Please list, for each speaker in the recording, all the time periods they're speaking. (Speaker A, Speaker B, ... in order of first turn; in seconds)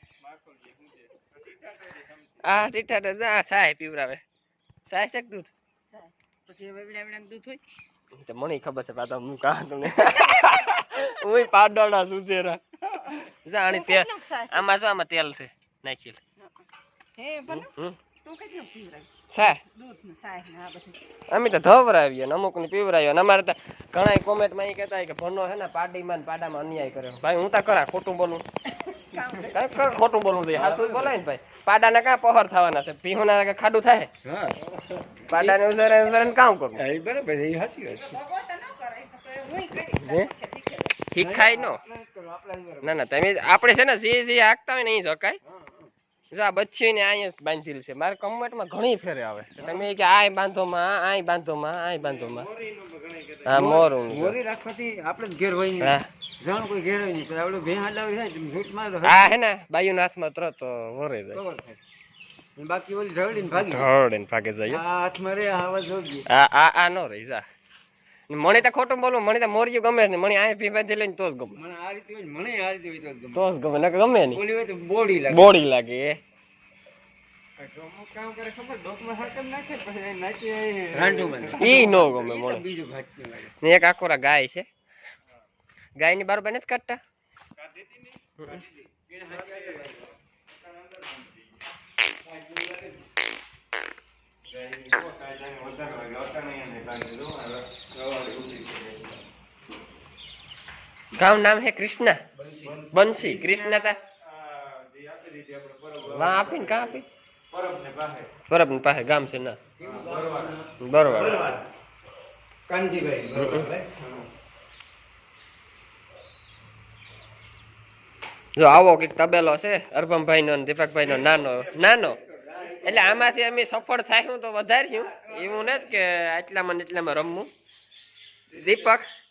Speaker A: 0.2-2.7, 52.0-54.0, 77.6-82.0, 87.6-91.6, 94.5-97.6, 98.7-99.1, 102.6-108.3, 109.8-111.4, 121.0-122.0, 128.5-129.0
Speaker B: 2.4-4.2, 4.9-5.5, 8.2-16.2, 17.5-18.0, 19.3-19.6, 21.3-28.4, 29.5-34.1, 35.3-36.8, 40.0-40.3, 41.1-41.8, 42.8-45.4, 46.3-52.5, 53.5-54.4, 55.8-56.1, 59.0-61.4, 63.6-64.8, 66.3-67.5, 68.3-71.6, 73.3-74.4, 75.3-76.2, 81.6-82.7, 83.6-84.7, 86.0-87.0, 101.2-102.2, 102.9-104.0, 106.1-107.1, 108.5-109.6, 110.8-111.5, 113.3-113.7, 118.6-122.2, 122.8-127.5, 128.6-129.1
Speaker C: 5.9-7.6, 13.7-14.6, 17.2-17.7, 18.2-21.0, 29.2-29.4, 38.1-41.0
Speaker D: 28.9-29.7, 30.5-31.2, 34.2-35.6, 36.8-38.2, 41.2-43.0, 45.5-45.9, 49.6-49.9, 53.5-59.3, 61.3-61.8, 62.6-63.9, 64.7-66.3, 71.6-73.4, 74.3-75.5, 80.9-83.5, 89.0-90.2, 92.2-93.0, 98.0-99.2, 102.3-103.2, 109.8-111.7, 112.7-114.1, 121.9-123.5, 124.9-126.0